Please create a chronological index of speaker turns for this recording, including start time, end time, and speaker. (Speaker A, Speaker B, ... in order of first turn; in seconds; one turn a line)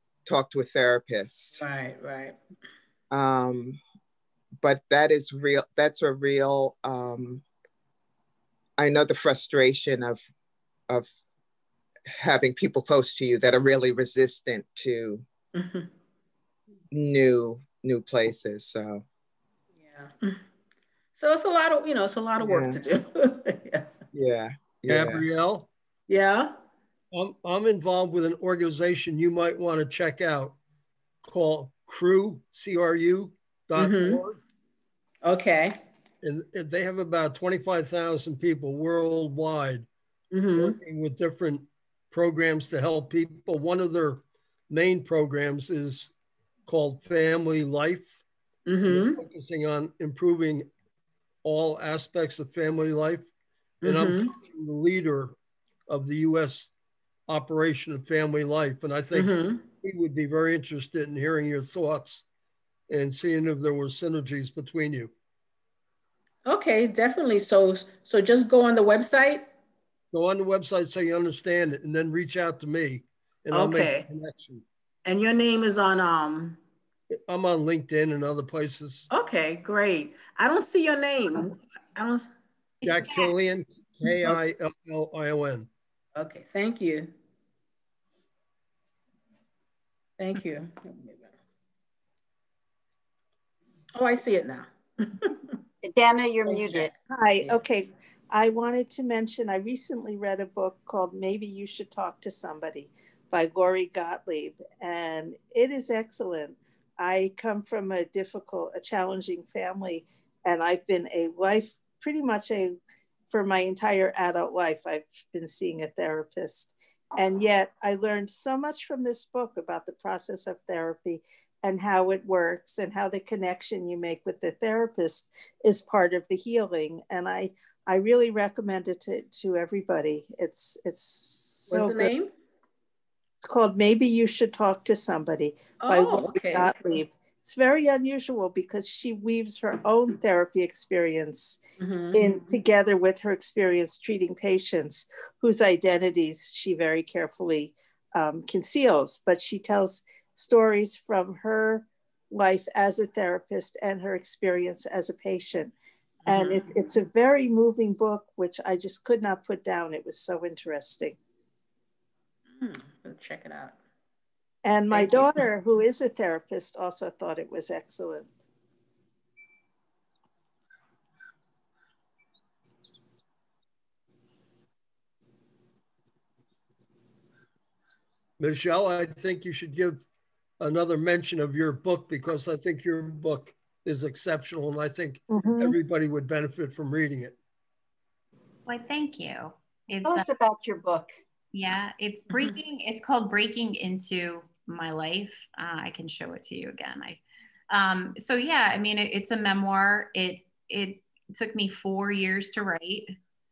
Speaker A: 0.2-1.6
Speaker B: 1.6-2.4
Speaker A: 3.1-3.8
Speaker A: 4.6-7.4
Speaker A: 8.8-10.2
Speaker A: 12.1-15.2
Speaker B: 15.5-15.9
Speaker A: 16.9-19.0
Speaker B: 19.8-20.4
Speaker B: 21.1-23.9
Speaker A: 22.4-22.8
Speaker A: 24.1-25.2
Speaker C: 24.9-25.7
Speaker B: 26.1-26.5
Speaker C: 27.1-30.6
Speaker C: 31.2-34.4
Speaker B: 33.8-34.2
Speaker B: 35.2-35.8
Speaker C: 36.2-39.9
Speaker B: 40.3-40.8
Speaker C: 40.5-46.1
Speaker C: 46.6-48.2
Speaker B: 48.6-49.2
Speaker C: 48.9-50.7
Speaker C: 51.4-53.3
Speaker B: 53.8-54.3
Speaker C: 53.8-55.3
Speaker C: 55.9-56.7
Speaker C: 57.3-62.2
Speaker B: 59.1-59.7
Speaker C: 62.9-65.1
Speaker B: 66.5-69.5
Speaker C: 70.1-74.6
Speaker B: 73.5-74.1
Speaker B: 75.0-76.6
Speaker C: 77.3-79.1
Speaker B: 79.1-82.3
Speaker D: 82.8-83.3
Speaker C: 82.8-85.7
Speaker B: 86.2-87.1
Speaker B: 90.2-91.3
Speaker B: 93.9-95.5
Speaker E: 95.8-96.9
Speaker B: 96.5-97.6
Speaker F: 97.1-112.8
Speaker F: 113.3-132.1
Speaker B: 131.7-132.3
Speaker F: 133.4-141.6
Speaker B: 135.8-136.7
Speaker B: 141.8-142.5
Speaker F: 142.1-155.7
Speaker B: 156.2-156.7
Speaker F: 156.3-161.2
Speaker B: 162.5-163.8
Speaker F: 164.6-168.3
Speaker B: 164.9-165.4
Speaker C: 178.4-180.0
Speaker C: 180.6-187.3
Speaker F: 185.3-185.8
Speaker D: 188.7-190.3
Speaker E: 190.0-191.1
Speaker D: 191.5-203.1